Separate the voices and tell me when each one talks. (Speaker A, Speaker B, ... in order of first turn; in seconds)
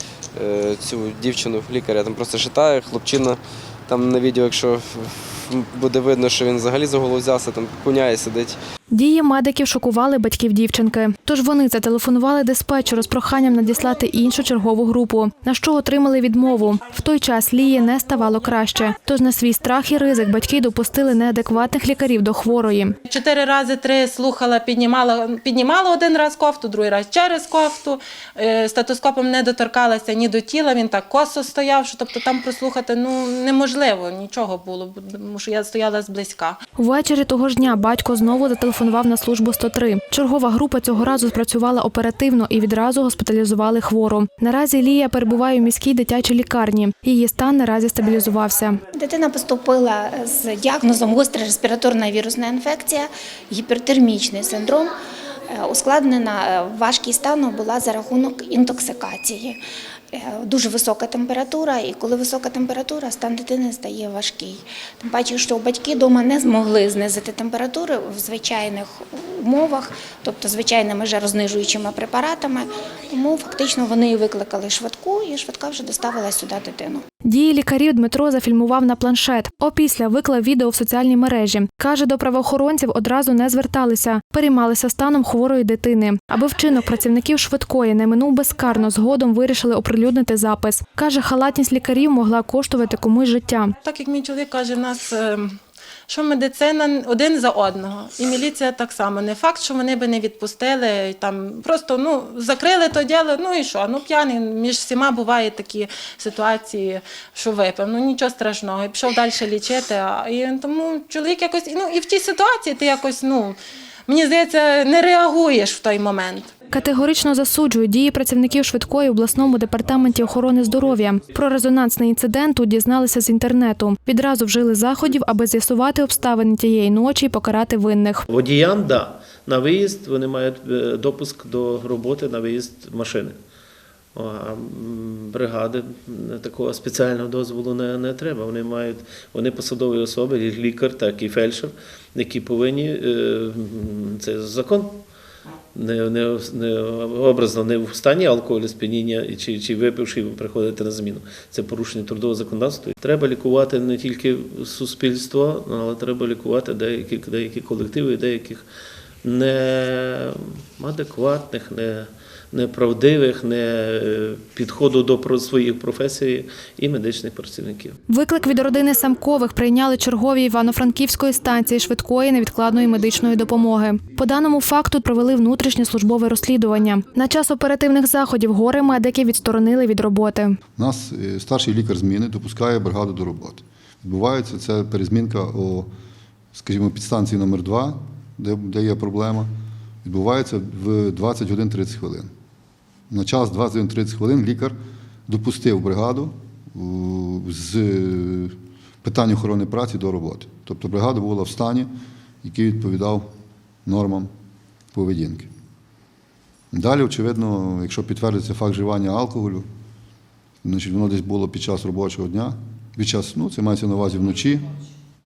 Speaker A: 0.3-8.6
Speaker B: 8.9-22.9, 36.8-48.8, 77.2-93.7, 116.7-128.2, 168.1-180.6
Speaker C: 23.0-36.6, 93.8-95.5, 96.1-113.5, 114.1-116.5
Speaker D: 48.9-54.9, 55.5-59.6, 60.1-77.0
Speaker E: 128.3-133.3, 134.1-145.0, 145.7-158.6, 159.2-167.9
Speaker F: 180.8-185.9, 186.5-189.5, 190.0-192.3, 193.1-194.8, 195.3-201.9, 202.4-203.3, 203.8-204.3, 204.9-205.5, 206.7-209.7, 210.6-214.7